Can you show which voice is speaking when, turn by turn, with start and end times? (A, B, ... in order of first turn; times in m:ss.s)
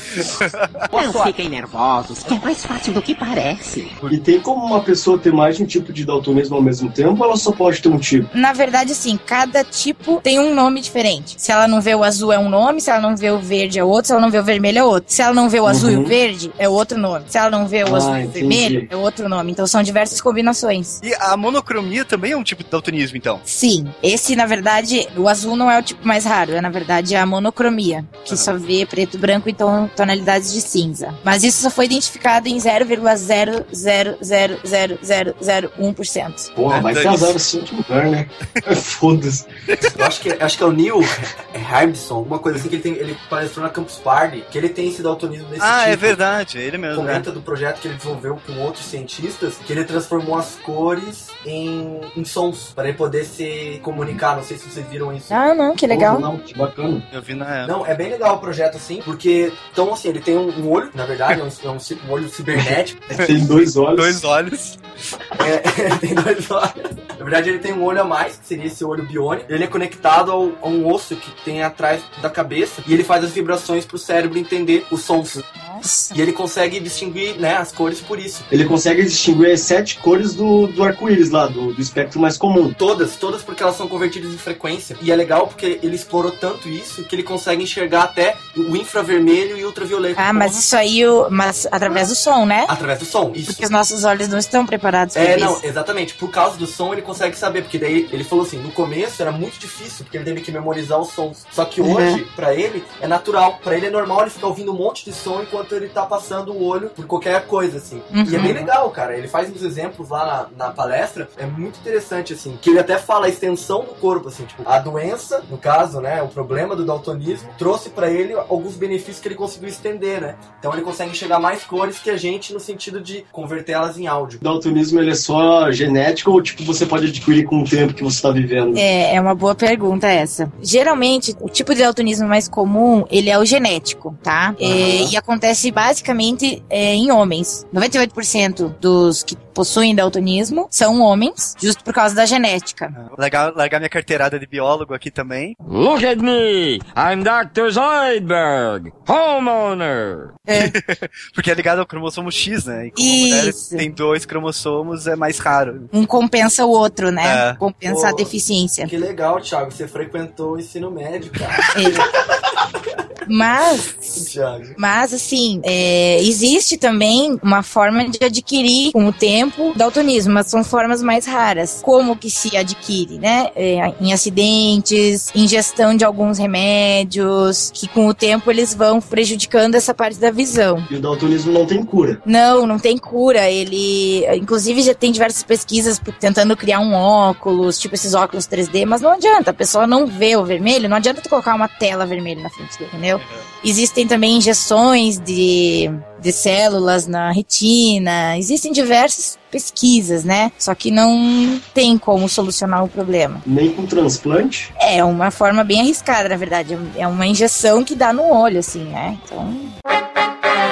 0:00.4-0:00.7 A
0:00.9-0:01.3 B
0:00.9-0:04.0 C
0:04.1-0:08.3 D
0:08.3-0:21.0 E
0:15.6-0:16.1 D
0:17.8-0:18.9 D
0:21.0-0:23.4 A
0:23.4-0:36.5 E
0:36.6-0:39.4 D
0:36.7-0:37.4 A
0:39.9-0:46.2 B
0:45.6-0:47.3 A
0:46.9-0:55.3 B
0:55.3-0:56.2 E
0:55.9-0:57.0 D
0:57.1-0:57.7 A
0:57.6-1:03.0 B
1:02.5-1:04.2 D
1:03.9-1:04.8 A
1:05.4-1:15.4 B
1:15.5-1:16.1 E
1:16.1-1:18.5 B
1:18.5-1:22.7 D
1:22.8-1:30.6 B
1:30.2-1:32.7 E
1:32.7-1:33.6 B
1:33.5-1:35.6 E
1:35.1-2:04.4 B
1:41.8-1:42.2 E
1:48.1-1:48.6 E
2:04.4-2:08.8 D
2:08.7-2:22.9 E
2:14.6-2:15.1 D
2:22.9-2:25.6 A
2:25.6-2:30.3 F
2:30.4-2:30.8 E
2:30.5-2:35.9 A
2:33.0-2:33.8 E
2:35.9-2:38.9 E
2:37.2-2:37.6 A
2:37.8-2:38.3 B
2:38.8-2:42.6 B
2:41.7-2:42.1 E
2:43.2-3:00.9 E
2:44.2-2:44.8 B
3:00.9-3:02.2 D
3:02.2-3:23.4 E
3:13.2-3:13.5 A
3:23.4-3:24.7 D
3:24.8-3:29.7 E